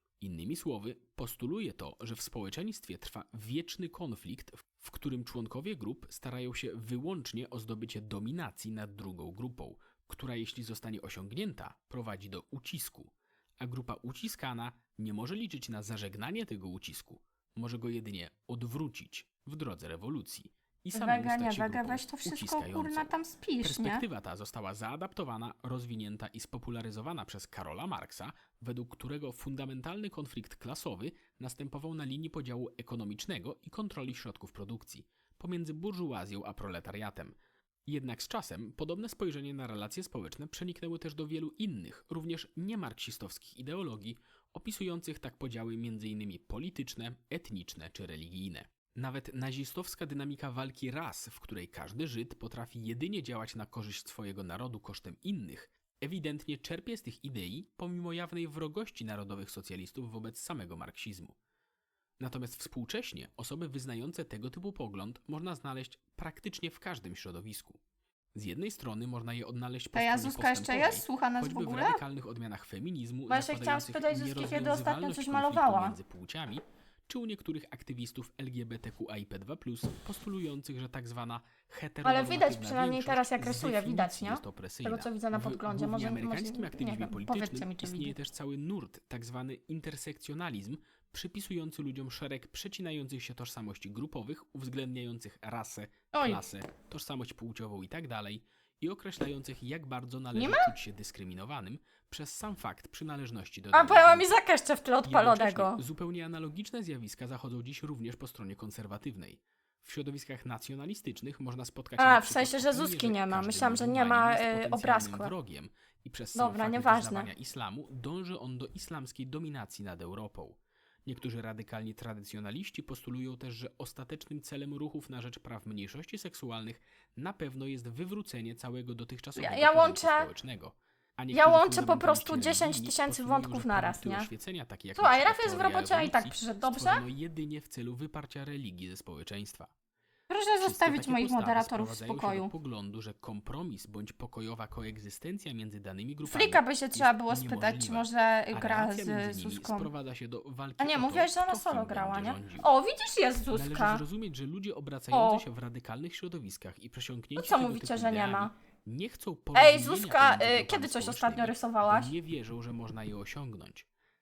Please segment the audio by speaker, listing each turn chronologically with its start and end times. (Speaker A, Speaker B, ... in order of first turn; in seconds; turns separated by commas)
Speaker A: 0.2-61.4, Speaker B: 20.9-24.0, Speaker A: 62.2-67.8, Speaker A: 68.3-104.3, Speaker B: 69.9-72.0, Speaker B: 73.3-76.0, Speaker B: 82.0-88.2, Speaker B: 96.1-96.4, Speaker B: 100.3-100.7, Speaker B: 103.7-105.8, Speaker A: 105.0-139.7, Speaker B: 112.0-115.3, Speaker B: 116.3-117.3, Speaker B: 129.3-130.3, Speaker B: 131.3-134.3, Speaker B: 134.9-137.0, Speaker B: 140.3-142.5, Speaker A: 140.6-152.7, Speaker B: 146.2-149.9, Speaker B: 150.8-154.0, Speaker A: 153.5-163.9, Speaker B: 155.1-155.4, Speaker B: 157.3-158.5, Speaker B: 159.5-162.1